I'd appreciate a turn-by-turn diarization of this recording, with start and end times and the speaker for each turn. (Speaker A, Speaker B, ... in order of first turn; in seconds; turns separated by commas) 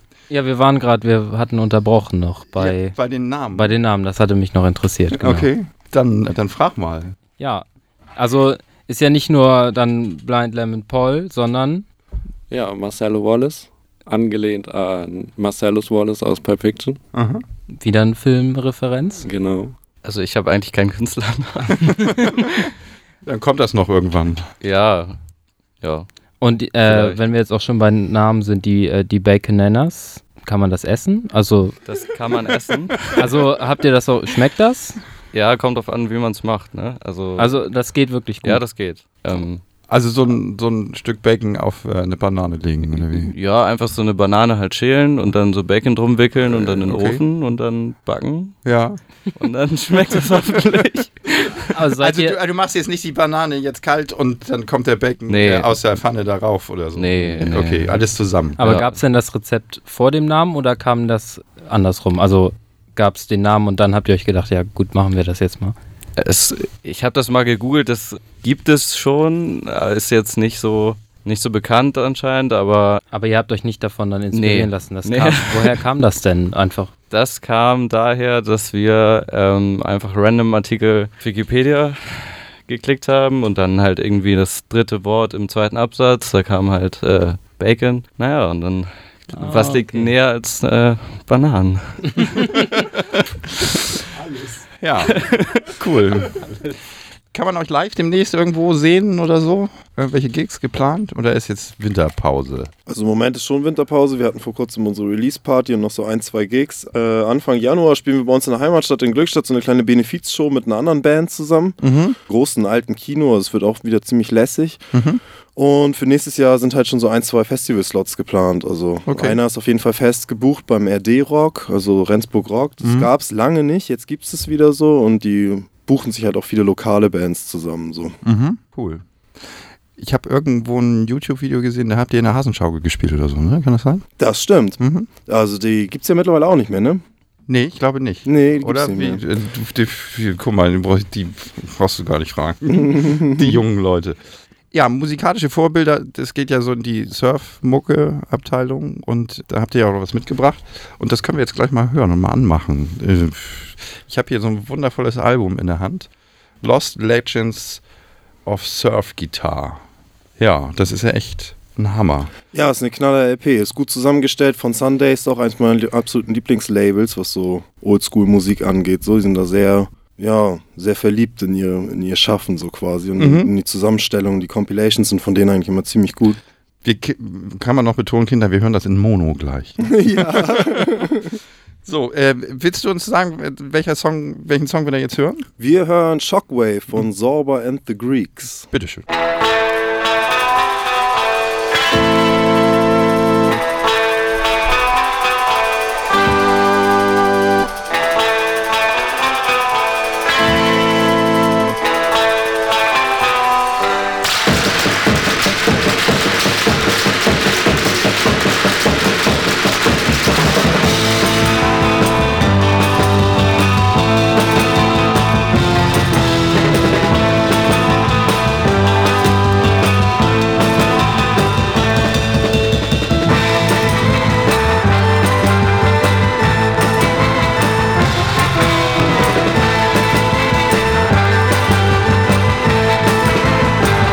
Speaker A: 0.3-3.0, Speaker B: 2.5-3.7, Speaker A: 3.5-5.5, Speaker B: 5.1-7.2, Speaker A: 7.4-7.7, Speaker A: 8.2-11.8, Speaker C: 12.5-17.0, Speaker B: 17.1-17.4, Speaker A: 17.7-19.3, Speaker C: 19.2-19.7, Speaker D: 20.0-22.0, Speaker B: 23.2-24.5, Speaker D: 24.6-25.2, Speaker D: 25.8-26.1, Speaker A: 26.4-31.8, Speaker D: 26.8-27.2, Speaker D: 31.9-33.2, Speaker A: 33.0-35.0, Speaker D: 35.3-37.5, Speaker A: 37.4-38.7, Speaker D: 38.4-39.6, Speaker B: 39.9-43.3, Speaker D: 43.3-48.7, Speaker B: 46.4-47.2, Speaker B: 48.6-49.0, Speaker D: 49.4-51.6, Speaker A: 51.7-52.4, Speaker B: 52.0-58.6, Speaker D: 55.3-55.7, Speaker D: 57.0-58.0, Speaker A: 58.6-65.8, Speaker D: 58.6-58.9, Speaker D: 66.2-73.0, Speaker A: 73.1-76.9, Speaker D: 74.3-75.8, Speaker D: 77.1-92.5, Speaker A: 89.3-90.1, Speaker B: 94.8-96.7, Speaker D: 95.2-95.6, Speaker B: 97.3-102.7, Speaker E: 102.9-114.9, Speaker B: 111.8-112.2, Speaker B: 114.9-115.2, Speaker E: 115.6-128.2, Speaker B: 119.1-119.4, Speaker B: 122.8-123.1, Speaker B: 128.2-134.1, Speaker E: 134.2-137.0, Speaker B: 134.8-135.1, Speaker B: 137.5-144.2, Speaker E: 138.2-139.2, Speaker E: 142.9-143.5, Speaker B: 144.7-156.1, Speaker B: 156.6-157.8, Speaker B: 158.5-159.8, Speaker B: 160.4-162.3, Speaker E: 162.5-176.4, Speaker B: 173.2-173.5, Speaker B: 176.8-181.0, Speaker E: 179.8-181.4, Speaker B: 181.8-185.5, Speaker E: 185.6-188.7, Speaker B: 188.7-189.1